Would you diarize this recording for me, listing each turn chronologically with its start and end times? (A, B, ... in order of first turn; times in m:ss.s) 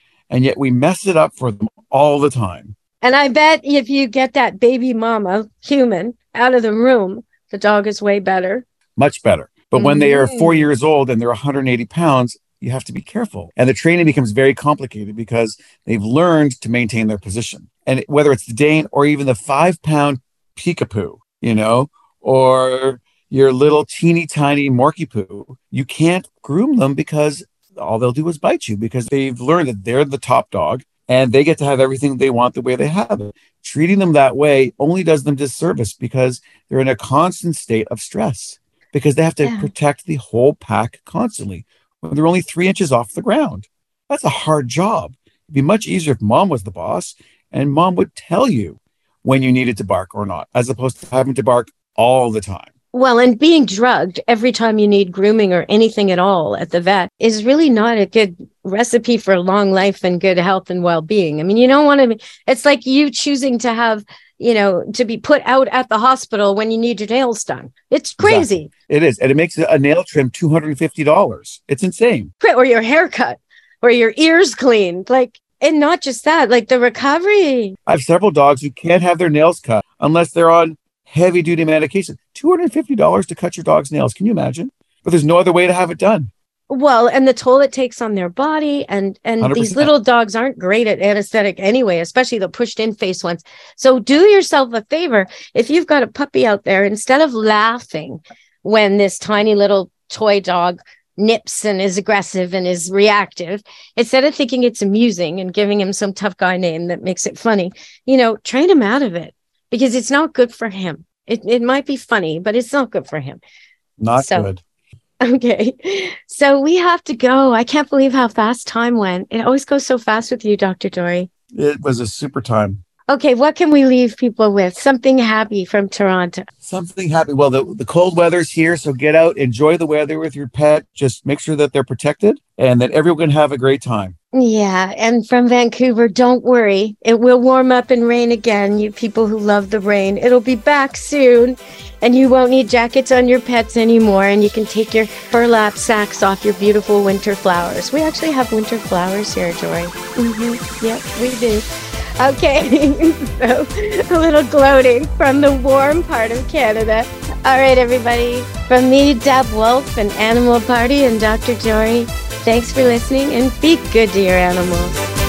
0:00.3-0:02.8 A
0:03.0-0:08.6 B
0:09.0-0:52.7 A
0:09.8-0:10.7 B
0:39.4-0:39.7 B
0:52.9-1:08.7 B
1:08.2-1:12.3 A
1:12.4-1:17.8 B
1:17.9-1:26.3 A
1:26.7-1:53.4 B
1:29.4-1:29.9 A
1:54.0-1:54.6 A
1:54.2-1:54.5 B
1:55.2-2:01.3 B
2:01.5-2:02.8 A
2:03.1-2:06.5 B
2:06.6-2:14.2 A
2:14.3-2:31.7 B
2:32.2-2:45.0 B